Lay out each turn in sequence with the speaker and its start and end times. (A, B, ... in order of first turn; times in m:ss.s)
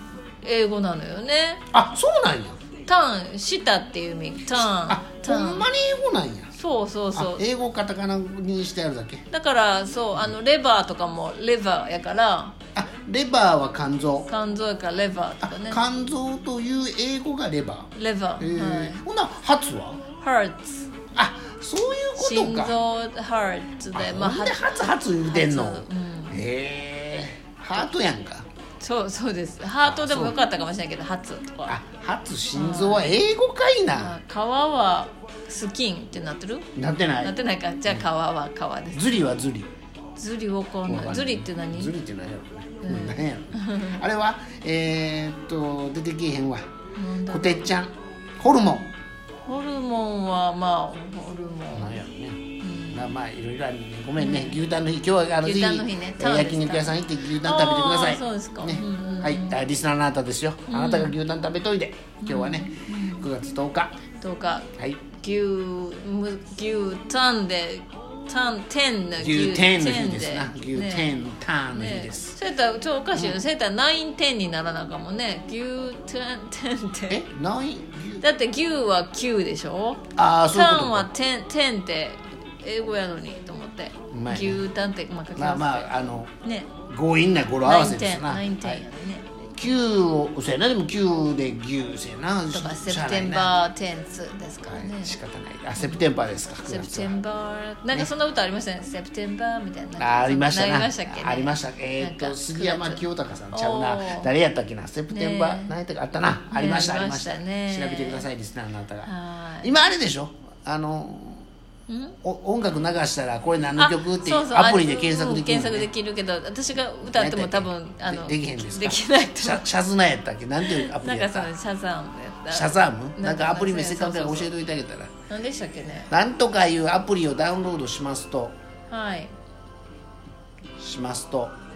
0:00.4-0:01.6 A
0:01.7-0:02.6 B
0:02.8-0:05.6 A
0:04.7-0:06.5 B
0:06.6-0:07.4 A
0:07.1-0:09.2 B
0:09.3-0:12.5 A
0:12.7-0:14.3 B
0:14.3-0:15.8 A
0:15.4-0:20.0 B
0:17.9-0:19.0 A
0:20.2-0:20.9 A
0:21.2-0:22.8 B
0:22.2-0:26.4 A
0:23.9-0:28.4 B
0:28.8-0:31.8 A
0:29.8-0:30.4 B
0:31.7-0:34.2 B
0:32.5-0:33.1 A
0:33.9-0:36.7 A
0:36.8-0:37.3 B
0:37.2-0:39.1 A
0:38.9-0:39.7 B
0:40.2-0:41.9 A
0:40.8-0:46.6 B
0:42.8-0:44.0 A
0:46.9-0:47.7 A
0:47.3-0:48.9 B
0:49.4-0:52.0 A
0:51.7-1:03.9 B
0:52.6-0:53.1 A
0:54.2-0:54.6 A
0:55.4-0:59.6 A
1:00.7-1:01.1 A
1:02.2-1:03.3 A
1:04.2-1:11.1 A
1:04.8-1:05.0 B
1:09.2-1:12.3 B
1:11.7-1:17.2 A
1:13.1-1:13.4 B
1:17.1-1:18.2 B
1:18.2-1:26.7 A
1:20.2-1:21.1 B
1:24.1-1:24.6 B
1:25.4-1:26.3 B
1:26.9-1:28.8 B
1:27.6-1:29.3 A
1:29.5-1:33.6 B
1:32.5-1:35.2 A
1:34.7-1:37.2 B
1:36.6-1:44.3 A
1:40.0-1:49.1 B
1:45.1-1:45.7 A
1:46.5-1:48.3 A
1:49.0-1:49.7 A
1:49.6-1:51.5 B
1:51.9-1:52.2 A
1:52.2-1:55.9 B
1:53.8-1:59.7 A
1:57.0-2:01.5 B
2:00.6-2:04.5 A
2:02.5-2:05.1 B
2:05.3-2:06.1 A
2:06.1-2:08.5 B
2:08.9-2:09.3 A
2:10.8-2:11.5 B